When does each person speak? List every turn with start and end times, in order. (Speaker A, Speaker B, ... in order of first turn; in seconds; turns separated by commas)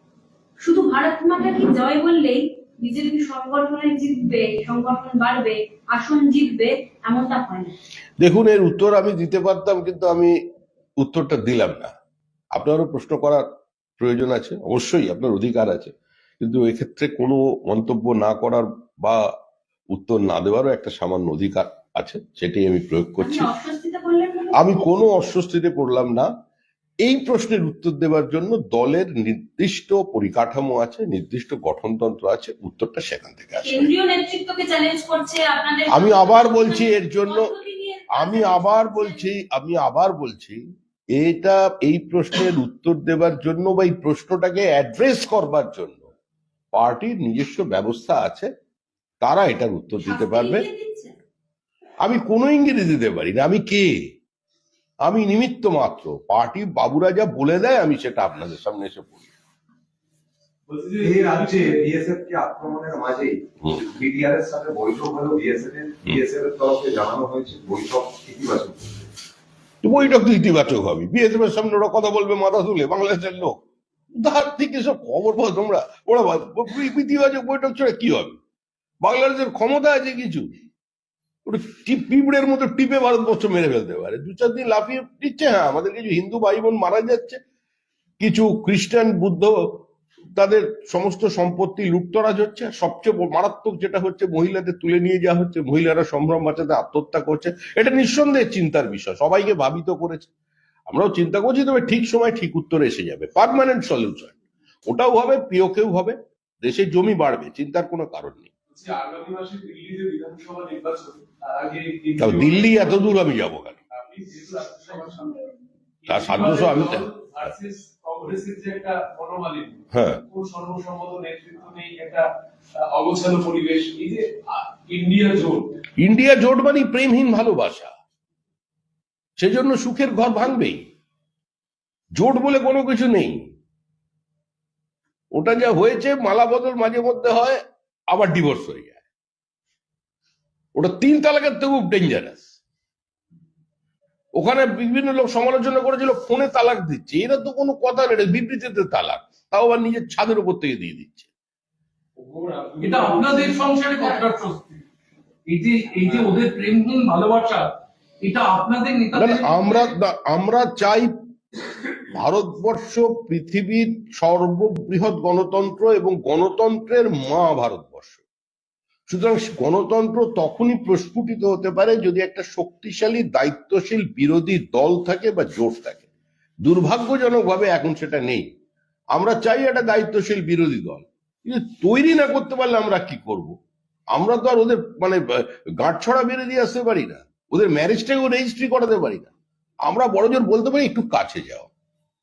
Speaker A: 0.6-7.7, Speaker B: 8.2-10.3, Speaker B: 11.0-11.9, Speaker B: 12.5-13.5, Speaker B: 14.0-19.3, Speaker B: 19.9-23.5, Speaker A: 23.2-24.9, Speaker B: 24.5-26.3, Speaker B: 27.0-33.9, Speaker A: 33.6-39.3, Speaker B: 35.9-37.5, Speaker B: 38.1-40.6, Speaker B: 41.1-46.1, Speaker B: 46.7-48.5, Speaker B: 49.2-50.7, Speaker A: 50.0-51.2, Speaker B: 52.0-54.1, Speaker B: 55.0-59.3, Speaker C: 60.7-61.9, Speaker D: 61.0-69.0, Speaker B: 69.8-78.4, Speaker B: 79.0-80.5, Speaker B: 81.4-87.4, Speaker B: 88.2-89.8, Speaker B: 90.3-100.3, Speaker B: 100.9-108.5, Speaker C: 108.7-113.2, Speaker B: 112.2-113.8, Speaker C: 113.9-115.5, Speaker C: 116.0-125.8, Speaker B: 116.1-117.0, Speaker B: 119.9-120.2, Speaker B: 126.0-127.9, Speaker B: 129.4-130.8, Speaker B: 132.1-133.5, Speaker B: 135.3-139.0, Speaker B: 140.7-142.4, Speaker B: 144.3-151.3, Speaker C: 152.2-154.1, Speaker E: 152.8-154.8, Speaker E: 155.5-159.9, Speaker B: 159.1-161.1, Speaker B: 162.1-168.2, Speaker B: 169.1-176.1, Speaker B: 176.6-178.4, Speaker B: 179.1-183.6, Speaker B: 184.1-189.3, Speaker B: 189.8-191.7